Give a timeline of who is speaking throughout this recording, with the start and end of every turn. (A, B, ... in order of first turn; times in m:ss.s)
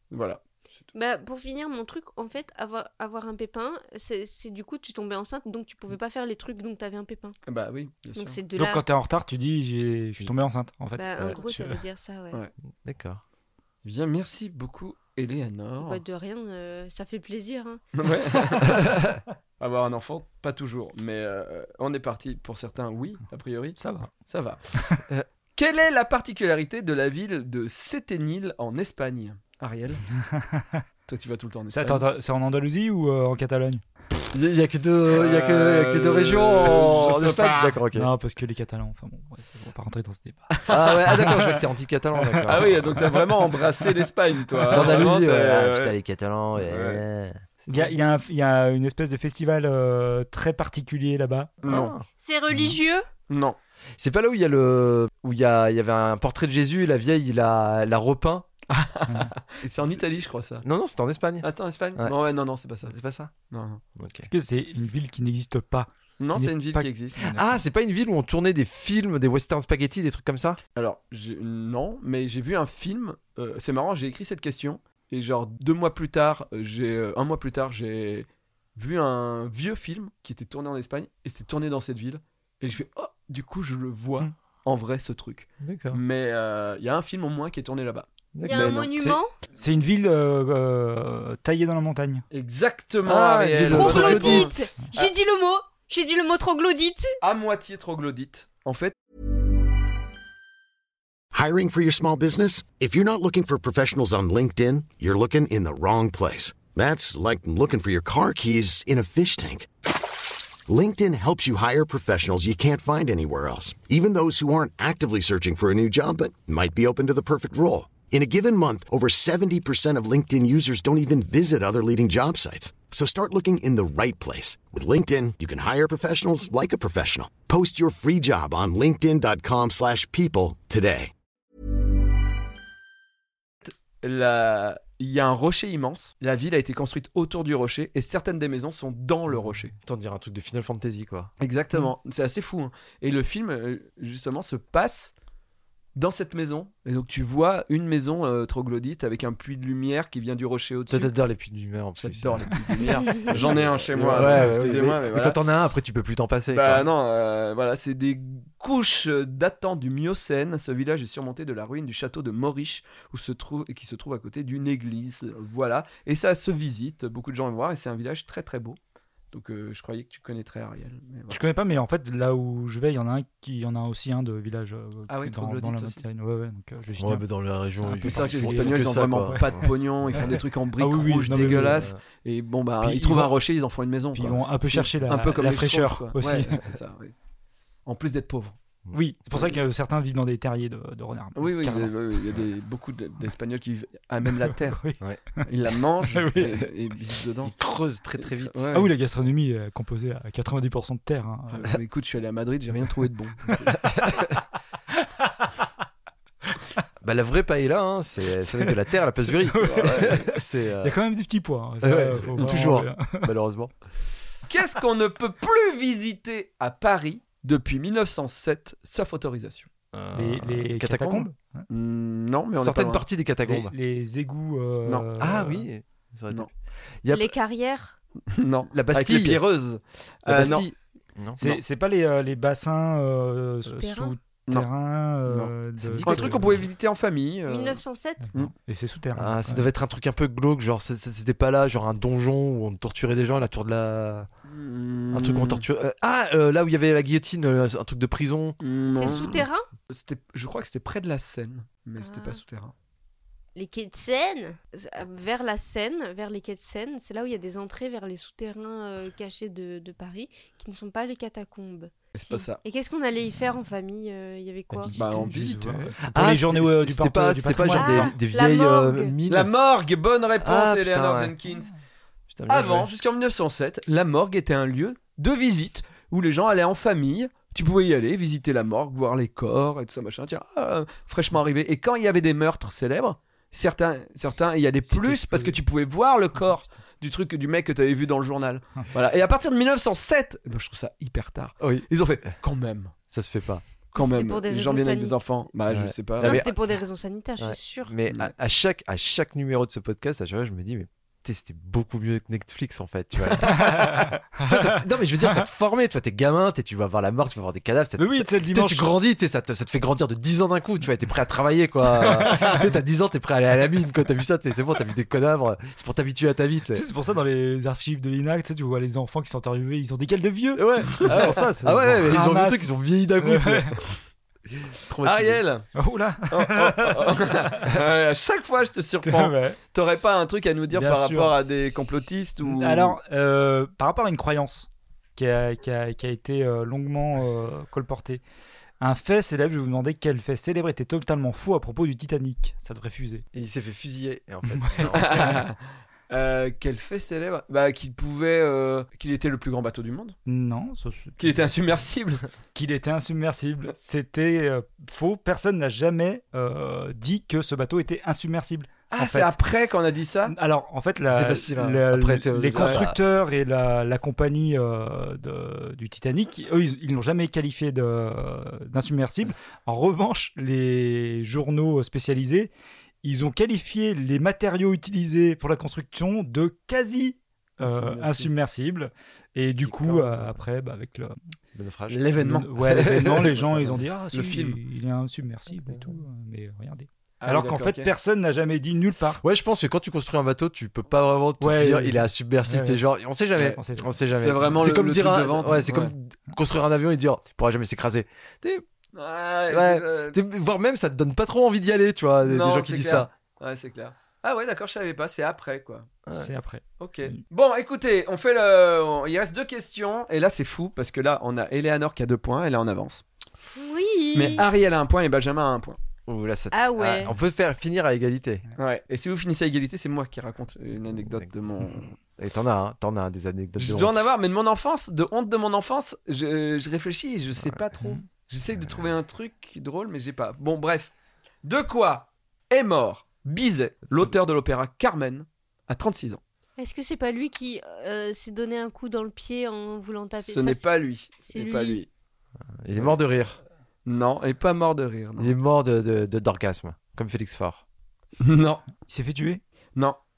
0:00.1-0:00.8 A
0:00.9-0:07.4 B
0:07.4-0:08.4 A
0:08.2-0:08.8 B
0:08.6-0:11.8 C
0:10.9-0:12.4 B
0:12.8-0:13.2 D
0:13.8-0:16.0 A
0:15.8-0:17.8 B
0:18.0-0:19.0 A
0:18.8-0:19.0 D
0:19.6-0:30.0 A
0:23.8-0:24.1 C
0:24.7-0:25.0 C
0:30.3-0:30.8 C
0:31.1-0:32.0 A
0:31.7-0:33.8 C
0:34.3-0:38.1 D
0:35.1-0:37.8 A
0:37.9-0:41.6 C
0:40.5-0:41.2 A
0:40.7-0:42.8 D
0:42.2-0:43.2 C
0:42.4-0:45.9 A
0:44.7-0:44.9 C
0:44.7-0:47.8 D
0:46.6-0:47.0 A
0:47.7-0:51.6 C
0:51.6-0:51.9 A
0:51.6-0:52.0 D
0:52.1-0:53.1 B
0:53.3-0:53.6 A
0:54.0-0:58.5 D
0:58.7-1:00.6 A
0:59.6-1:00.0 D
1:00.6-1:02.1 D
1:01.4-1:02.9 A
1:02.9-1:03.3 D
1:03.5-1:03.8 A
1:04.0-1:04.3 D
1:04.2-1:07.5 C
1:06.2-1:07.3 A
1:07.3-1:10.6 D
1:10.8-1:29.0 A
1:25.6-1:26.0 D
1:28.3-1:28.8 D
1:28.4-1:29.3 B
1:29.6-1:32.2 C
1:32.3-1:35.1 A
1:33.0-1:34.5 D
1:33.7-1:37.1 B
1:37.2-1:38.9 A
1:41.3-1:49.7 E
1:50.6-2:11.1 E
2:13.6-2:19.7 A
2:19.8-2:21.3 D
2:21.4-2:25.1 A
2:25.9-2:31.1 A
2:30.9-2:36.8 D
2:32.0-2:35.4 A
2:33.0-2:33.4 B
2:34.0-2:34.5 C
2:36.5-2:48.8 A
2:49.3-2:51.4 A
2:51.3-2:57.2 C
2:55.1-2:56.0 A
2:57.0-3:00.3 D
2:57.8-3:01.9 C
2:58.0-3:07.1 A
3:01.4-3:02.0 D
3:02.8-3:03.3 C
3:04.1-3:06.7 C
3:07.8-3:08.6 A
3:08.9-3:12.0 C
3:11.4-3:14.8 A
3:14.6-3:15.5 C
3:15.4-3:17.5 A
3:16.1-3:16.6 C
3:17.4-3:18.7 D
3:18.2-3:18.9 A
3:18.7-3:21.8 C
3:21.5-3:23.8 A
3:27.0-3:31.0 D
3:29.3-3:30.2 C
3:29.6-3:30.3 A
3:30.8-3:33.3 C
3:31.8-3:33.7 D
3:34.5-3:39.7 A
3:39.9-3:41.3 D
3:40.1-3:41.7 C
3:41.7-3:43.0 A
3:42.5-3:43.7 D
3:43.4-3:45.7 C
3:45.2-3:46.5 D
3:47.0-3:47.3 D
3:47.1-3:48.0 B
3:48.3-3:50.7 A
3:48.7-3:49.4 D
3:50.3-3:51.6 D
3:51.4-3:56.6 C
3:53.6-3:54.2 B
3:55.2-3:57.8 A
3:55.8-3:56.6 D
3:57.5-3:58.3 B
3:58.2-3:59.7 C
3:59.2-4:04.3 D
4:04.5-4:05.6 A
4:05.1-4:08.6 D
4:08.6-4:12.7 A
4:08.9-4:09.7 B
4:12.0-4:12.4 B
4:13.6-4:25.0 B
4:22.1-4:22.6 A
4:24.7-4:28.2 C
4:24.9-4:25.9 A
4:26.0-4:29.5 D
4:27.7-4:29.2 B
4:29.3-4:31.7 A
4:30.4-4:31.3 D
4:32.3-4:32.9 D
4:32.5-4:52.9 A
4:45.0-4:45.4 C
4:51.6-4:51.9 D
4:53.1-4:53.6 D
4:53.9-4:56.4 A
4:54.0-4:55.2 B
4:55.7-4:56.5 D
4:56.2-4:57.9 B
4:57.4-5:16.8 D
5:03.5-5:04.8 C
5:08.0-5:08.9 C
5:16.7-5:23.8 C
5:20.6-5:23.7 D
5:24.8-5:25.4 D
5:25.0-5:25.7 A
5:25.8-5:27.7 C
5:26.3-5:33.0 A
5:29.0-5:29.6 C
5:30.7-5:31.3 C
5:32.4-5:38.2 C
5:38.8-5:43.2 C
5:43.3-5:45.3 D
5:44.6-5:45.3 C
5:44.9-5:45.6 A
5:46.1-5:50.2 A
5:50.2-5:51.4 C
5:51.2-5:52.2 A
5:52.5-5:59.3 C
5:58.9-6:00.3 A
6:00.2-6:12.5 C
6:01.1-6:03.0 D
6:13.0-6:21.2 C
6:17.6-6:18.3 A
6:19.4-6:20.1 D
6:21.5-6:22.1 D
6:21.9-6:24.6 A
6:22.2-6:29.2 C
6:27.2-6:27.9 A
6:29.2-6:38.6 D
6:31.4-6:32.8 C
6:33.4-6:33.9 C
6:34.1-6:35.9 A
6:38.9-6:40.2 A
6:39.5-6:43.1 D
6:42.2-6:45.9 A
6:46.1-6:46.3 D
6:46.1-6:47.2 C
6:46.8-6:53.0 A
6:53.5-6:54.5 B
6:54.1-6:55.8 A
6:56.1-6:58.4 D
6:56.5-6:57.1 B
6:58.6-7:01.9 A
7:02.2-7:04.1 D
7:03.6-7:10.9 A
7:08.6-7:08.9 D
7:11.4-7:16.2 A
7:16.6-7:20.6 B
7:20.1-7:21.9 A
7:21.2-7:21.8 B
7:22.6-7:23.4 D
7:22.7-7:23.0 A
7:23.8-7:25.3 A
7:25.2-7:27.6 D
7:28.2-7:28.7 A
7:28.9-7:29.4 C